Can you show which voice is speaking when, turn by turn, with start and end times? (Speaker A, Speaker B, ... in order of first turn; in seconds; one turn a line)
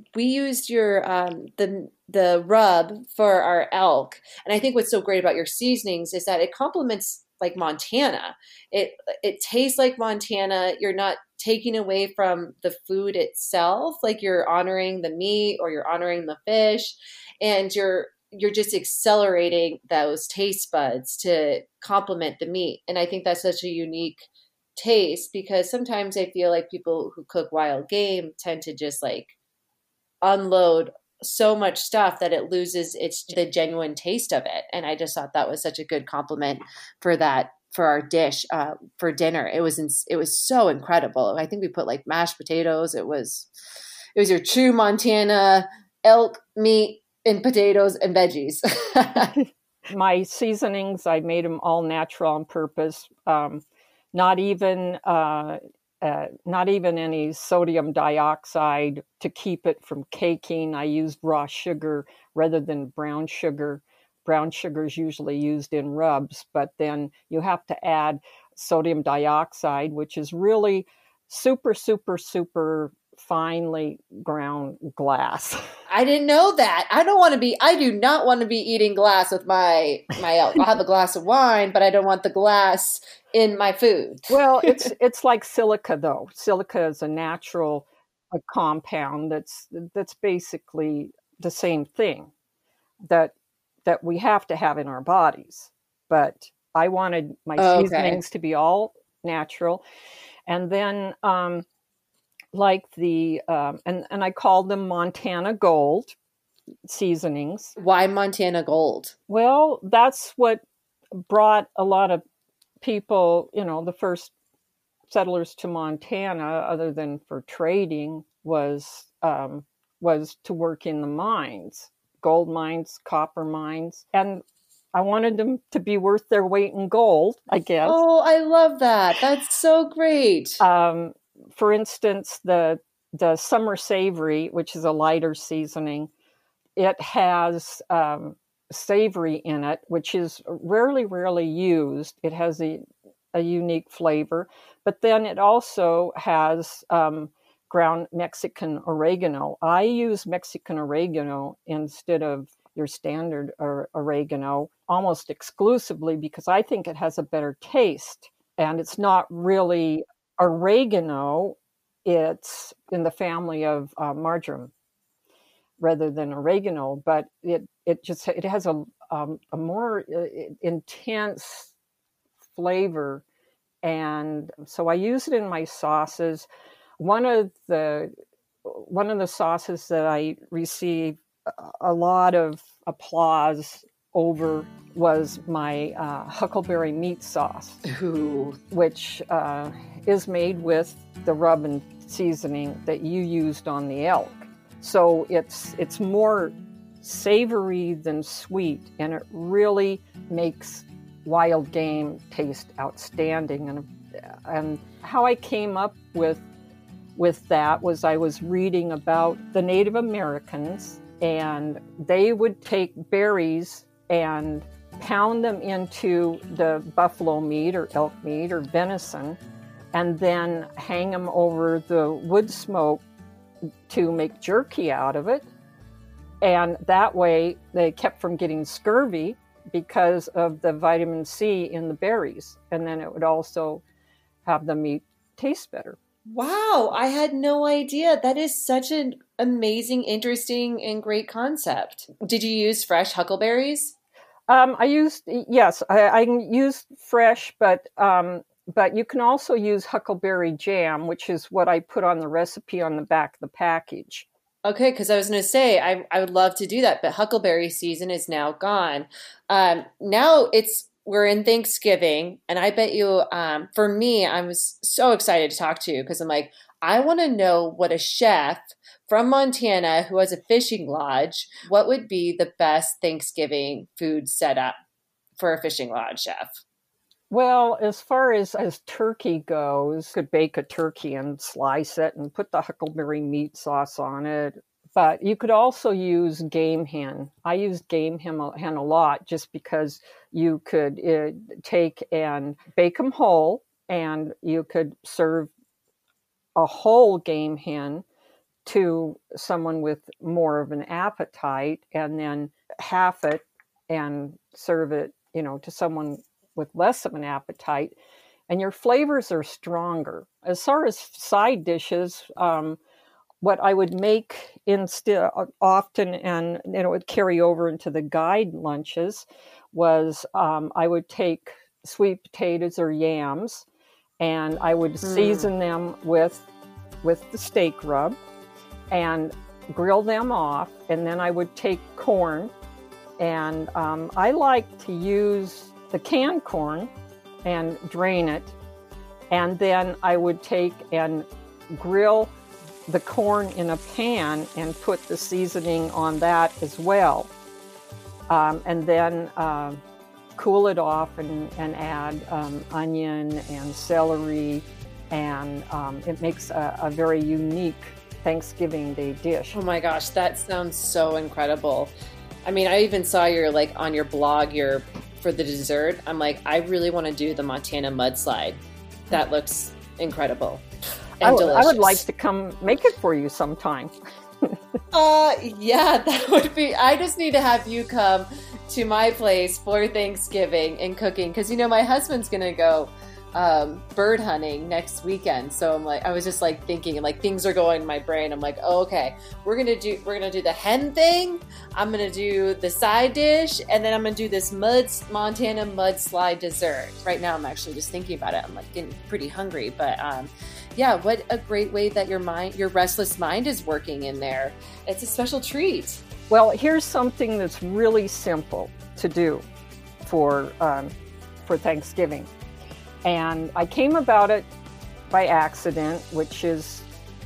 Speaker A: 0.1-29.3
Speaker A: 30.2-43.5
Speaker A: 44.1-49.4
Speaker B: 49.9-75.6
Speaker A: 75.9-84.9
Speaker B: 84.3-92.3
Speaker B: 93.1-93.3
Speaker B: 93.9-99.8
Speaker A: 97.6-98.2
Speaker B: 100.5-101.7
Speaker B: 102.5-106.2
Speaker B: 106.9-107.8
Speaker A: 107.8-109.2
Speaker B: 109.3-110.6
Speaker B: 111.3-112.2
Speaker B: 112.8-114.3
Speaker B: 115.1-128.0
Speaker A: 127.8-130.6
Speaker B: 130.6-136.1
Speaker B: 136.8-164.7
Speaker B: 165.8-171.7
Speaker B: 172.5-173.2
Speaker B: 173.8-176.5
Speaker B: 177.0-178.1
Speaker B: 178.7-187.8
Speaker A: 187.8-188.6
Speaker B: 188.7-206.4
Speaker B: 207.2-219.4
Speaker B: 219.9-223.0
Speaker B: 223.9-225.5
Speaker B: 226.4-233.8
Speaker B: 234.4-236.0
Speaker A: 236.3-243.9
Speaker B: 244.5-254.3
Speaker A: 254.7-274.8
Speaker A: 275.4-276.6
Speaker B: 277.3-295.5
Speaker B: 296.6-298.1
Speaker B: 298.6-307.9
Speaker B: 308.5-312.8
Speaker B: 313.4-323.7
Speaker B: 324.2-326.5
Speaker A: 325.0-325.5
Speaker B: 327.0-328.2
Speaker B: 328.9-332.5
Speaker B: 333.2-336.9
Speaker B: 337.4-338.6
Speaker B: 339.3-342.3
Speaker B: 342.9-347.3
Speaker B: 348.3-349.8
Speaker B: 350.4-359.6
Speaker A: 359.5-361.9
Speaker A: 362.4-370.6
Speaker A: 371.2-372.0
Speaker B: 371.2-374.6
Speaker A: 374.9-406.0
Speaker B: 406.3-409.4
Speaker B: 410.0-410.9
Speaker B: 411.4-412.3
Speaker B: 413.1-414.5
Speaker B: 415.1-416.9